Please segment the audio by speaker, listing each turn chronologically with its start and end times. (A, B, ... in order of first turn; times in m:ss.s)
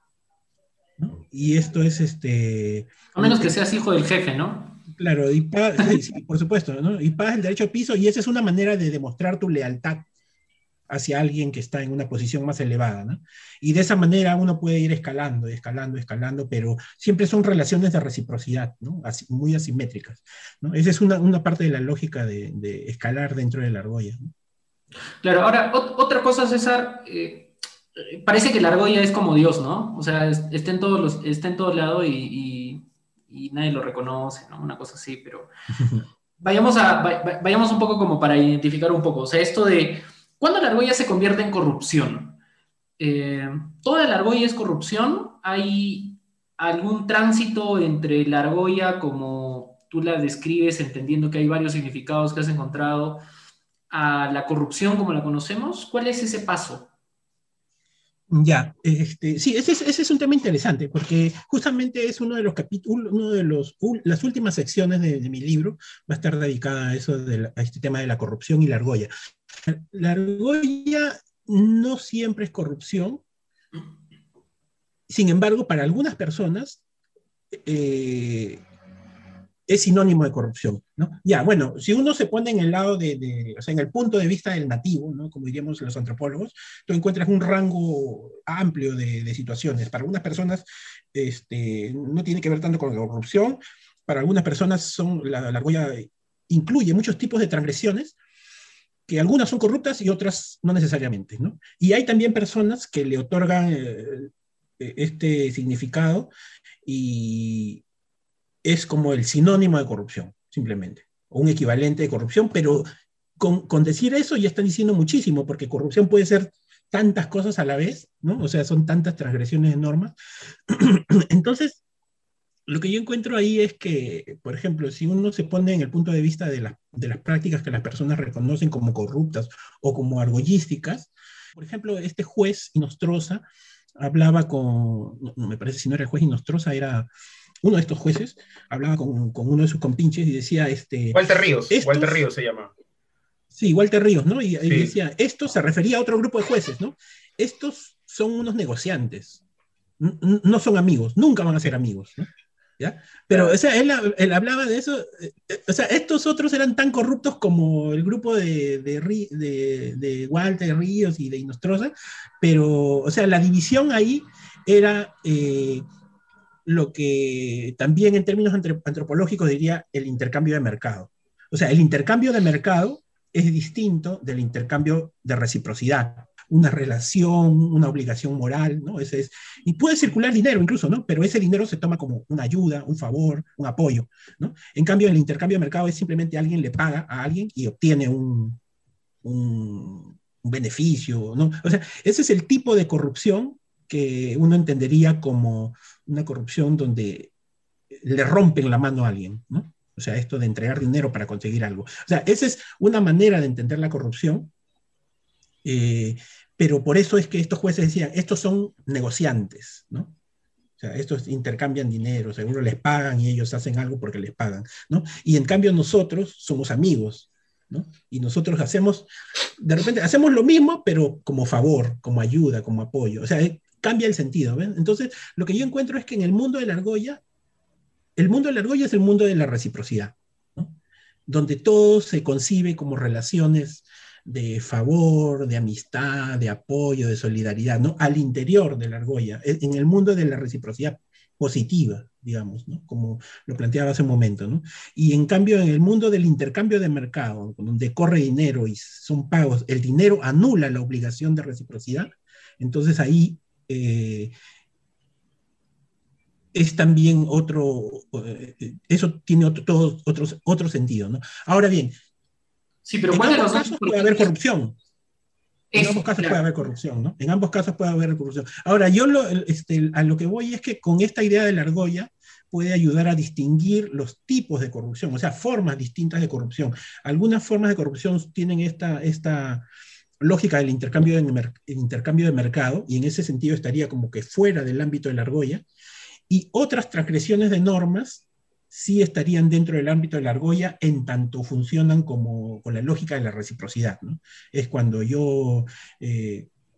0:01.0-0:03.5 A
0:03.1-0:04.8 B
0:05.0-0:10.0 A
0:10.9-0:24.3 A
0:25.2-0:35.5 B
0:35.7-0:36.1 A
0:36.4-0:42.4 B
0:43.0-0:53.2 B
0:53.9-0:56.9 B
0:58.3-1:09.1 A
1:09.7-1:13.2 A
1:15.1-1:16.8 A
1:17.6-1:18.6 A
1:19.7-1:38.1 A
1:39.1-1:46.3 A
1:46.8-1:47.8 A
1:48.6-1:52.9 A
1:53.4-2:00.1 A
2:00.7-2:01.8 A
2:02.7-2:13.4 A
2:14.0-2:17.1 A
2:17.6-2:22.2 A
2:21.1-2:22.7 C
2:23.5-2:29.4 A
2:24.6-2:24.9 C
2:30.0-2:32.3 A
2:32.8-2:45.8 A
2:33.3-2:33.6 C
2:46.6-3:08.6 A
3:09.2-3:17.3 A
3:18.0-3:24.5 A
3:25.6-3:30.1 A
3:30.8-3:39.1 A
3:39.6-3:47.2 A
3:48.2-3:50.7 A
3:51.3-4:14.3 A
4:16.5-4:22.0 A
4:22.8-4:24.3 B
4:23.1-4:24.8 A
4:25.7-4:26.4 B
4:25.7-4:39.6 A
4:40.2-4:45.6 A
4:46.3-4:56.5 A